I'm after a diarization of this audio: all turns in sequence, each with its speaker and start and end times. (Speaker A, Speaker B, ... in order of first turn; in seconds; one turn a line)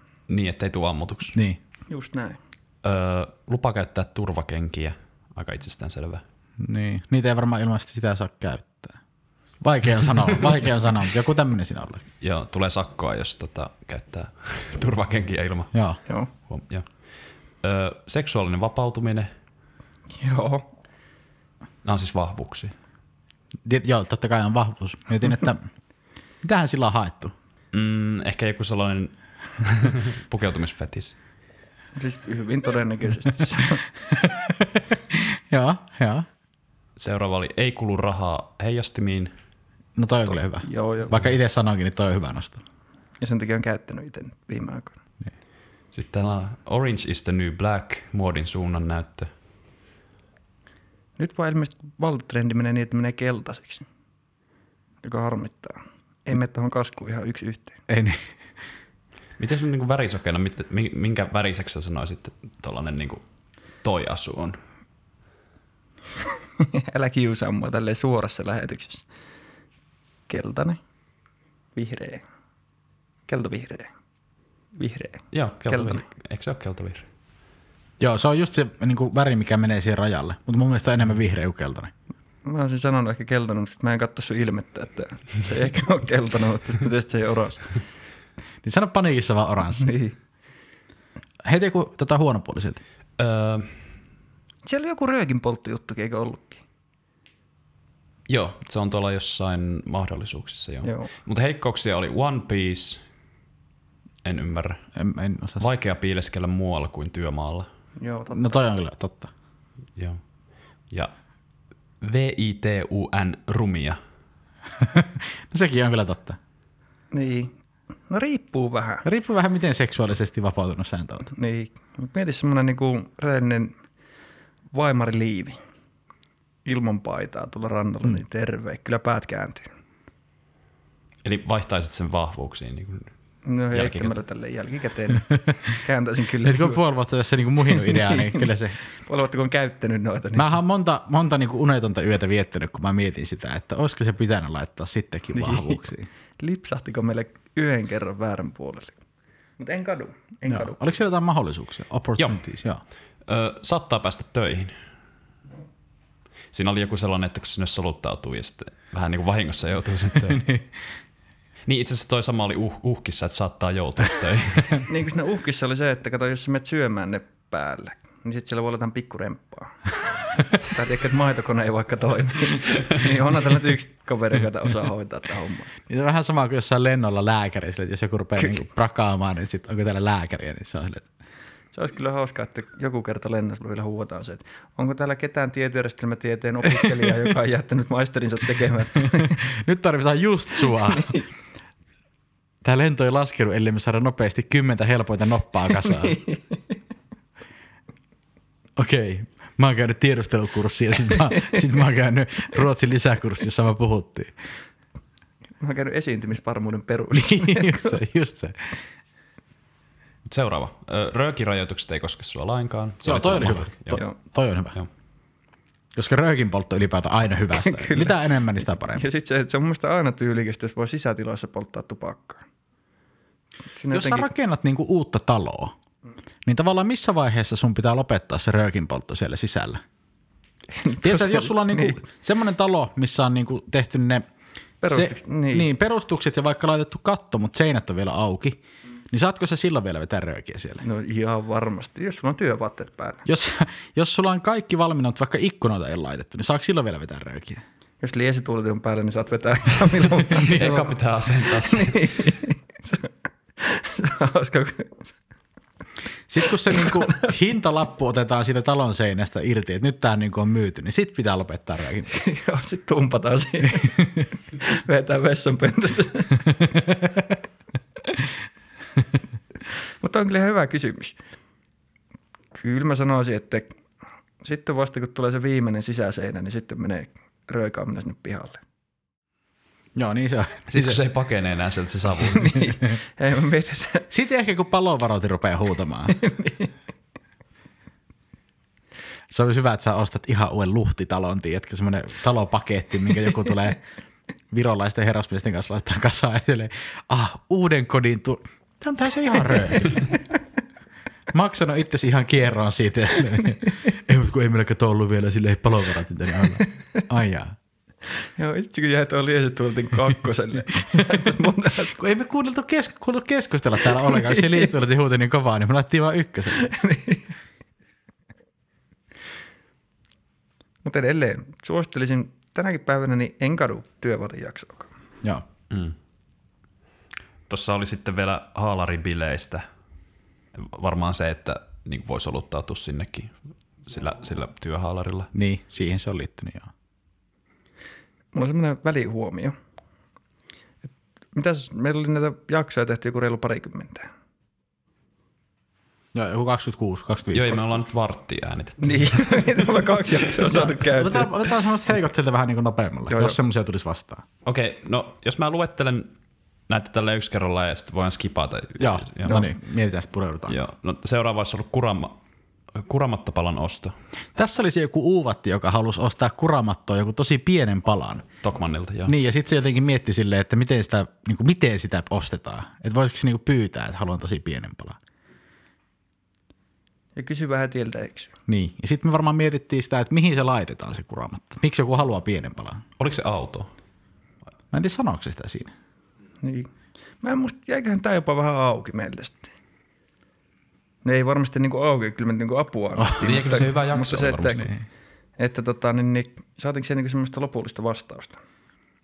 Speaker A: 0.3-1.4
Speaker B: 1.9-2.4
Speaker A: 2.8-6.2
Speaker C: 6.6-9.0
Speaker C: 9.6-12.0
Speaker A: 12.2-15.7
Speaker C: 15.7-16.0
Speaker A: 16.5-16.9
Speaker A: 17.6-19.3
Speaker B: 20.2-20.7
Speaker A: 21.8-22.7
Speaker C: 23.6-25.7
Speaker C: 26.4-27.3
Speaker A: 27.7-31.1
Speaker B: 31.9-33.8
Speaker C: 34.1-36.3
Speaker A: 37.0-39.3
Speaker C: 40.0-42.6
Speaker B: 40.6-41.1
Speaker B: 43.2-45.0
Speaker A: 45.9-49.3
Speaker B: 51.2-53.8
Speaker B: 55.0-57.8
Speaker C: 57.9-58.2
Speaker A: 59.4-63.2
Speaker A: 63.8-64.6
Speaker B: 66.6-69.0
Speaker B: 70.3-70.8
Speaker B: 71.8-72.2
Speaker B: 73.3-73.9
Speaker B: 74.7-76.0
Speaker A: 75.3-77.0
Speaker C: 78.0-81.9
Speaker B: 82.4-87.7
Speaker C: 88.6-89.9
Speaker B: 89.8-90.1
Speaker C: 91.4-92.8
Speaker A: 93.2-93.7
Speaker B: 94.6-96.6
Speaker A: 98.3-103.0
Speaker B: 100.8-101.1
Speaker A: 104.2-104.8
Speaker C: 105.0-105.7
Speaker A: 105.6-107.7
Speaker B: 108.0-108.5
Speaker C: 108.3-109.3
Speaker A: 112.0-114.0
Speaker C: 114.8-116.4
Speaker B: 117.1-117.5
Speaker B: 118.1-119.0
Speaker C: 119.0-121.3
Speaker B: 121.3-123.7
Speaker B: 124.7-125.6
Speaker B: 126.6-129.7
Speaker A: 131.2-133.1
Speaker B: 133.4-136.8
Speaker A: 133.7-134.1
Speaker C: 136.4-138.8
Speaker B: 137.7-138.5
Speaker B: 139.0-140.6
Speaker C: 140.3-146.1
Speaker B: 145.3-145.8
Speaker B: 146.4-148.9
Speaker B: 149.6-150.8
Speaker C: 150.5-152.8
Speaker A: 153.3-154.8
Speaker A: 156.5-160.5
Speaker A: 161.7-164.8
Speaker B: 164.9-169.8
Speaker B: 170.5-175.7
Speaker C: 175.9-181.1
Speaker B: 181.7-189.4
Speaker C: 189.0-191.2
Speaker B: 190.9-191.2
Speaker C: 192.6-196.2
Speaker B: 195.9-196.6
Speaker C: 198.8-204.3
Speaker B: 205.6-208.0
Speaker C: 207.1-208.8
Speaker A: 210.2-214.0
Speaker C: 213.0-214.8
Speaker C: 215.9-219.0
Speaker B: 217.6-218.2
Speaker B: 218.9-222.4
Speaker B: 223.7-224.3
Speaker C: 223.9-225.7
Speaker C: 226.4-229.8
Speaker B: 230.7-232.0
Speaker C: 231.0-234.2
Speaker B: 234.8-235.7
Speaker C: 234.9-238.6
Speaker C: 239.1-240.8
Speaker B: 240.8-243.2
Speaker C: 243.2-247.6
Speaker B: 248.0-255.1
Speaker C: 250.3-250.8
Speaker A: 250.4-252.3
Speaker C: 256.3-262.2
Speaker B: 256.6-257.3
Speaker B: 262.1-266.8
Speaker B: 270.0-271.1
Speaker B: 272.6-273.7
Speaker B: 274.4-278.6
Speaker C: 279.9-281.0
Speaker A: 280.7-282.6
Speaker B: 282.3-284.1
Speaker C: 284.1-286.2
Speaker B: 286.1-286.7
Speaker C: 289.3-293.8
Speaker C: 294.5-300.1
Speaker C: 301.3-307.5
Speaker B: 308.2-311.9
Speaker C: 311.9-316.7
Speaker B: 314.1-314.5
Speaker B: 316.5-317.3
Speaker B: 320.8-324.9
Speaker A: 325.7-325.9
Speaker A: 327.5-329.6
Speaker A: 330.5-333.3
Speaker A: 333.9-335.3
Speaker C: 335.3-336.7
Speaker B: 338.3-339.5
Speaker B: 341.3-344.1
Speaker C: 346.1-347.8
Speaker A: 347.3-349.8
Speaker B: 348.8-351.4
Speaker C: 350.5-354.2
Speaker B: 353.1-353.4
Speaker A: 354.4-356.1
Speaker A: 356.7-359.4
Speaker C: 358.8-360.6
Speaker A: 360.5-362.2
Speaker A: 362.7-363.9
Speaker C: 364.4-368.3
Speaker A: 368.4-369.1
Speaker C: 369.1-375.0
Speaker B: 377.1-378.3
Speaker C: 378.5-382.8
Speaker A: 383.0-383.7
Speaker C: 384.7-385.7
Speaker B: 386.4-386.7
Speaker B: 387.2-389.5
Speaker B: 391.0-394.7
Speaker C: 393.0-393.4
Speaker A: 393.2-394.7
Speaker B: 395.4-398.4